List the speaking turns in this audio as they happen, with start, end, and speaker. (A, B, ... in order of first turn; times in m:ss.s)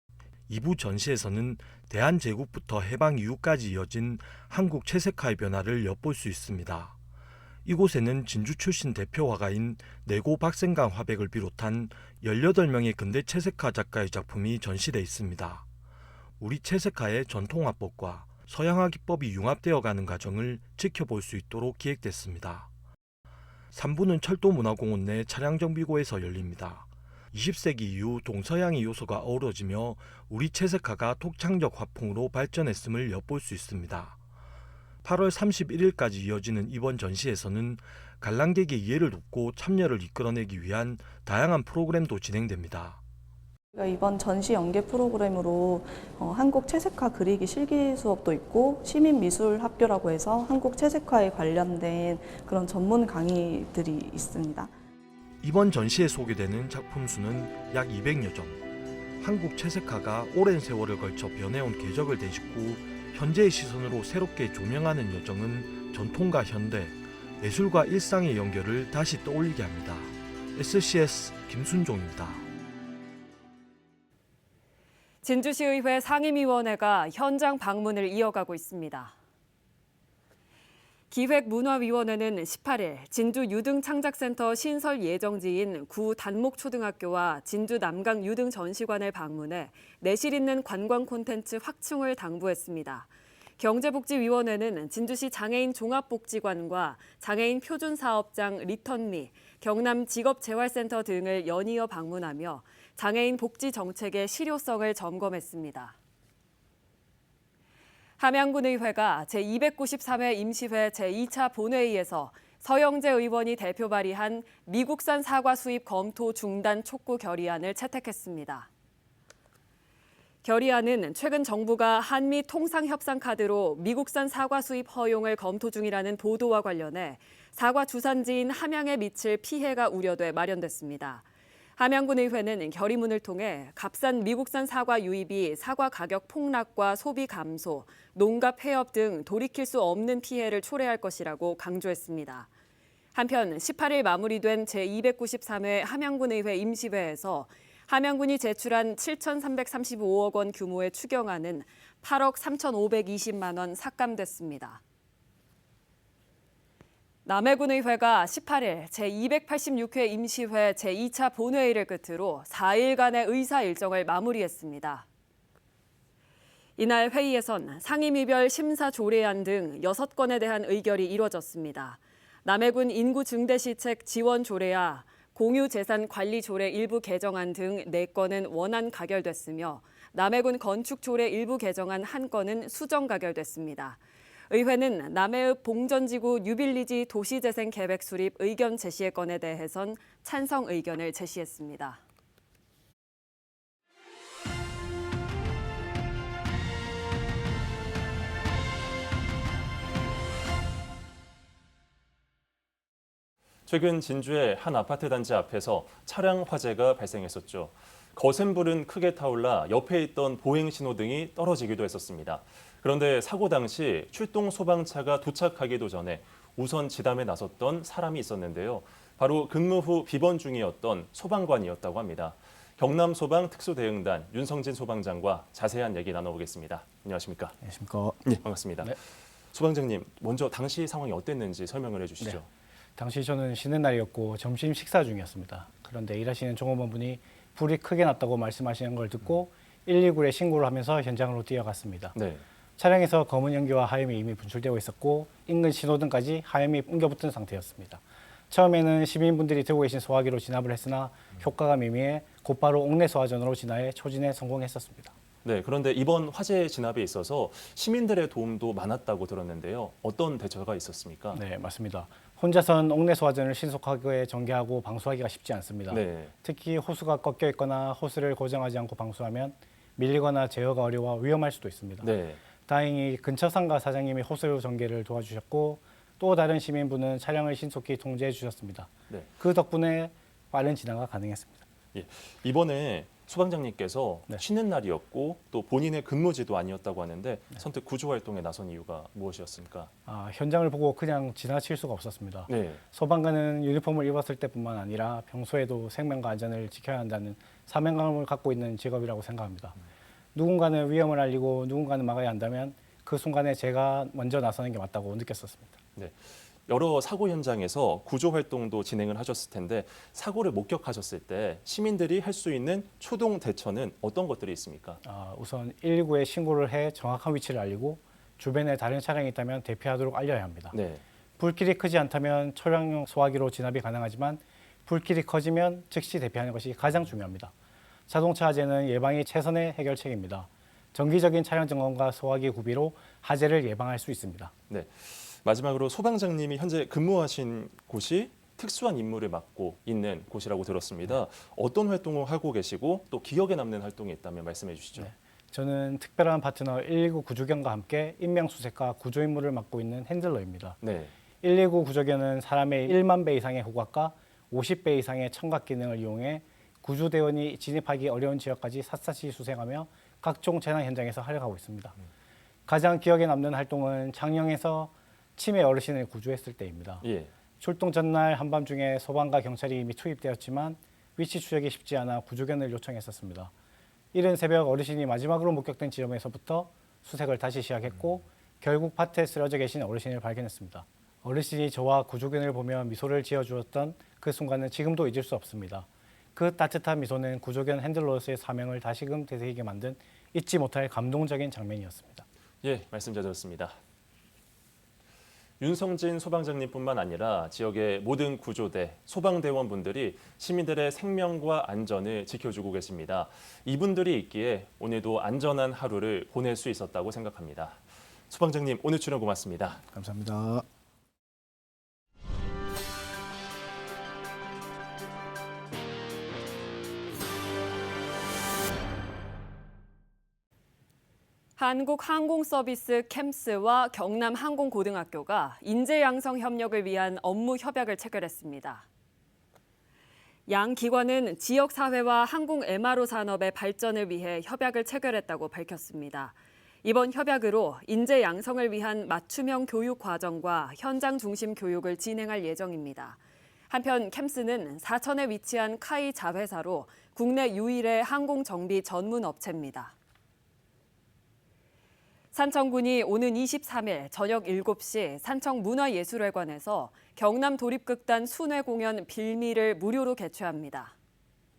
0:00.5-0:07.0 A
0:07.6-0:15.6 A
0:16.4-0:22.7 A
0:23.7-0:34.2 A
0:35.0-0:43.0 A
0:43.7-0:54.7 B
0:55.4-0:58.6 A
0:59.2-1:12.5 A
1:15.2-1:19.1 C
1:21.1-1:46.0 C
1:48.2-1:58.7 C
2:00.4-2:11.2 C
2:11.8-2:22.5 C
2:23.1-2:34.8 C
2:37.2-2:45.0 C
2:46.8-3:12.0 C
3:23.7-3:47.6 D
3:47.6-3:48.2 E
3:48.2-3:52.5 D
3:53.0-4:02.2 E
4:02.1-4:02.4 D
4:02.8-4:15.1 E
4:15.4-4:21.4 D
4:21.3-4:32.1 E
4:25.9-4:26.3 D
4:32.0-4:32.4 D
4:32.6-4:41.6 E
4:41.9-4:49.9 D
4:50.0-4:59.8 E
4:52.5-4:52.8 D
5:00.3-5:05.8 E
5:05.9-5:15.0 D
5:15.0-5:20.7 E
5:20.7-5:21.0 D
5:21.4-5:27.5 E
5:28.1-5:34.5 E
5:34.7-5:45.1 D
5:45.0-5:50.8 E
5:50.8-5:51.1 D
5:51.4-6:02.0 E
6:02.7-6:07.0 E
6:07.0-6:07.3 D
6:07.6-6:13.5 E
6:14.1-6:32.2 E
6:32.6-6:33.8 D
6:35.6-6:49.8 D
6:49.9-6:50.6 E
7:01.6-7:08.8 C
7:10.5-7:23.2 C
7:23.7-7:29.9 C
7:32.3-7:40.9 C